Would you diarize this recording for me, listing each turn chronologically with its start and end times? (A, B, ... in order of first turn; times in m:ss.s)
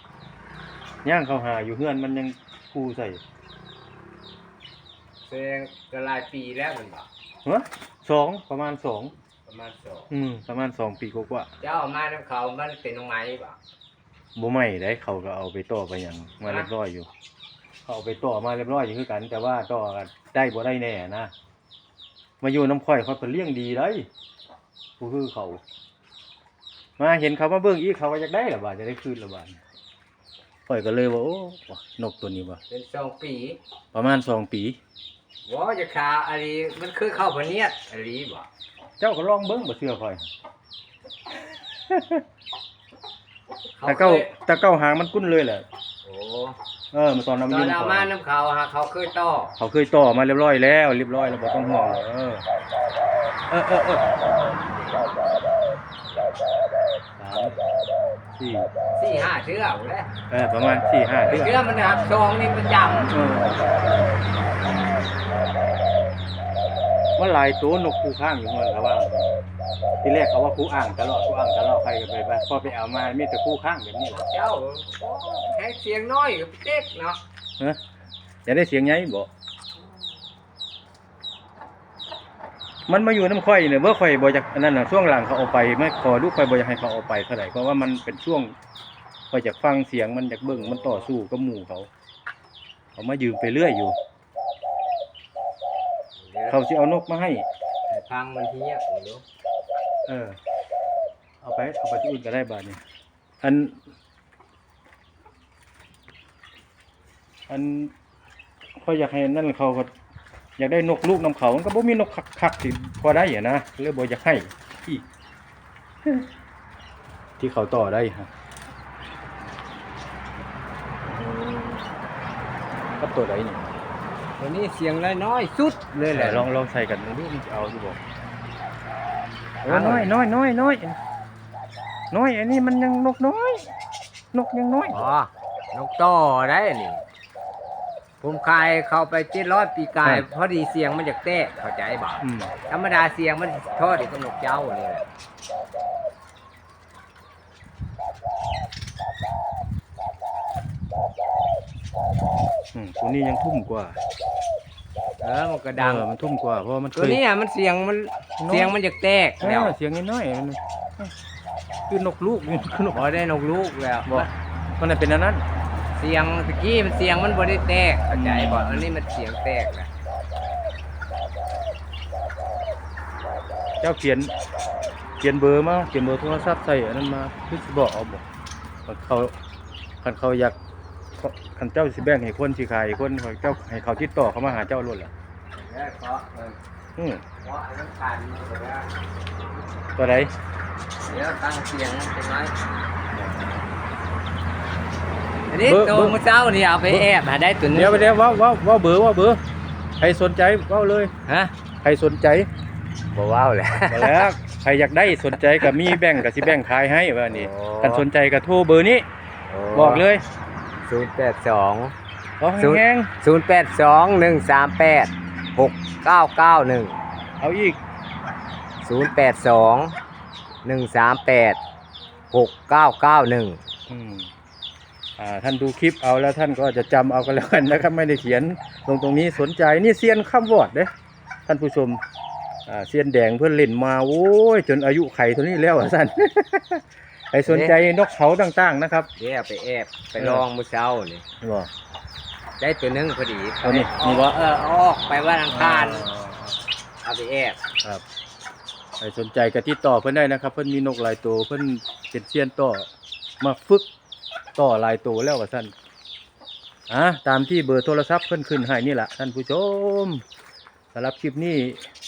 0:01.0-0:03.2 A
0:05.2-0:07.1 B
0:07.4-0:09.1 A
0:09.4-0:10.1 B
0:10.1-0:11.5 A
0:11.6-0:13.6 B
0:14.4-0:17.1 A
0:16.4-0:16.7 B
0:17.8-0:21.3 A
0:22.4-0:24.1 A
0:25.0-0:25.6 A
0:27.0-0:29.6 A
0:30.7-0:32.6 A
0:32.7-0:33.6 B
0:33.9-0:34.8 A
0:35.4-0:38.5 B
0:39.0-0:40.3 A
0:41.9-0:42.2 A
0:43.8-0:44.3 B
0:43.8-0:45.6 A
0:46.0-0:46.6 B
0:46.9-0:48.1 A
0:47.5-0:49.5 B
0:49.6-0:52.4 A
0:53.5-0:54.1 A
0:57.2-0:57.6 A
0:58.4-0:58.7 A
0:59.0-1:00.1 B
1:00.3-1:01.6 A
1:01.3-1:03.1 B
1:03.0-1:03.6 A
1:07.2-1:09.4 A
1:10.0-1:14.2 A
1:14.1-1:17.2 B
1:18.4-1:19.3 A
1:22.9-1:28.5 A
1:29.3-1:31.9 A
1:30.4-1:31.1 B
1:33.0-1:34.0 A
1:36.2-1:36.6 B
1:36.5-1:37.4 A
1:37.9-1:39.2 B
1:40.0-1:40.4 A
1:41.4-1:42.8 A
1:43.4-1:43.8 A
1:47.5-1:47.9 A
1:48.8-1:49.9 A
1:50.6-1:55.0 A
1:57.4-1:58.3 A
2:01.0-2:01.8 A
2:03.0-2:03.7 A
2:04.4-2:06.5 B
2:06.1-2:08.0 A
2:09.6-2:11.0 A
2:09.7-2:10.1 B
2:12.1-2:13.7 A
2:14.3-2:15.0 A
2:14.9-2:17.0 B
2:18.2-2:25.0 B
2:20.0-2:20.3 A
2:22.2-2:22.5 A
2:32.7-2:34.0 A
2:35.2-2:36.0 B
2:35.7-2:37.2 A
2:37.0-2:39.7 B
2:38.4-2:38.8 A
2:39.4-2:41.1 A
2:41.9-2:43.0 A
2:42.8-2:44.3 B
2:44.0-2:45.4 A
2:46.0-2:49.9 B
2:48.1-2:48.9 A
2:53.8-2:54.3 A
2:55.2-2:58.2 A
2:58.9-2:59.3 A
3:00.0-3:00.6 A
3:01.2-3:05.1 A
3:05.5-3:06.6 B
3:07.0-3:07.2 A
3:07.4-3:08.9 B
3:10.0-3:10.3 A
3:11.0-3:12.5 B
3:13.1-3:13.7 A
3:15.5-3:18.3 B
3:15.6-3:16.2 A
3:17.7-3:19.4 A
3:20.0-3:21.1 A
3:21.3-3:21.5 B
3:21.8-3:22.5 A
3:23.1-3:24.3 B
3:23.9-3:29.0 A
3:25.2-3:26.5 B
3:27.3-3:28.0 B
3:29.5-3:30.0 B
3:29.7-3:30.2 A
3:30.8-3:31.9 B
3:32.4-3:33.1 A
3:32.6-3:37.0 B
3:37.4-3:37.8 A
3:38.8-3:40.0 B
3:40.6-3:41.6 B
3:42.3-3:43.6 B
3:43.9-3:44.3 A
3:45.2-3:50.9 A
3:51.5-3:52.0 A
3:52.7-3:59.1 A
3:57.4-3:57.8 B
3:59.2-4:01.2 B
4:00.2-4:00.4 A
4:01.4-4:01.7 A
4:02.6-4:06.0 B
4:03.6-4:04.4 A
4:05.5-4:06.6 A
4:07.0-4:07.6 B
4:09.0-4:12.9 A
4:13.4-4:13.9 A
4:14.6-4:15.7 A
4:16.9-4:20.2 A
4:20.9-4:21.8 A